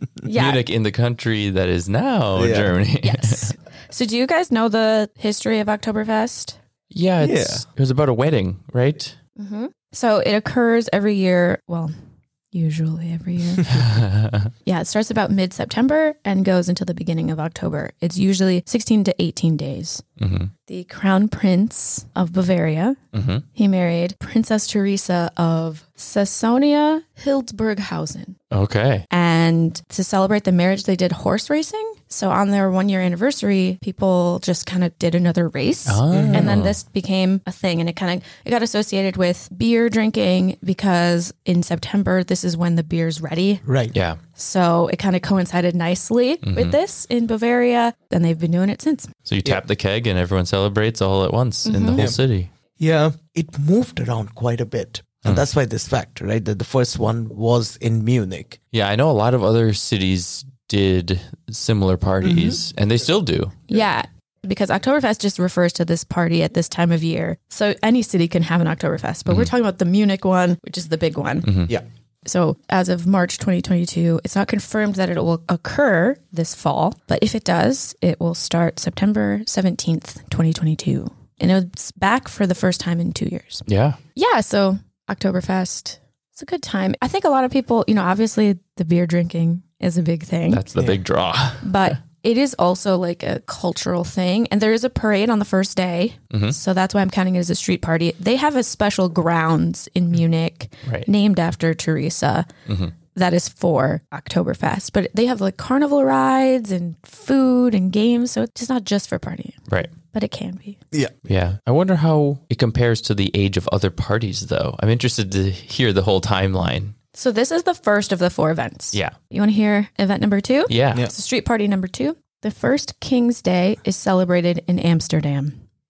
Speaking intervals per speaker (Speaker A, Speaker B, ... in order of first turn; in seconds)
Speaker A: 0.2-0.6, 3.0-6.6, 9.4-11.9, 12.5-13.8, 14.7-20.0, 20.7-23.0, 23.5-28.4, 29.1-43.6, 44.4-49.1, 51.6-52.1, 63.7-71.7, 72.2-90.7, 91.6-102.5, 103.1-110.8, 117.1-125.6
Speaker B: 0.3-3.5, 6.9-9.2, 13.7-14.5, 20.2-20.5, 23.1-23.4, 28.5-29.1, 35.9-36.8, 43.9-44.2, 46.4-46.8, 49.3-52.5, 58.7-63.5, 71.4-71.7, 83.7-84.0, 90.5-91.9, 96.3-96.6, 102.7-102.9, 111.3-116.9, 120.7-121.1
Speaker C: 2.4-2.8, 7.2-7.7, 36.1-36.5, 43.7-44.0, 51.9-52.2, 52.8-58.6, 62.2-62.6, 90.8-91.0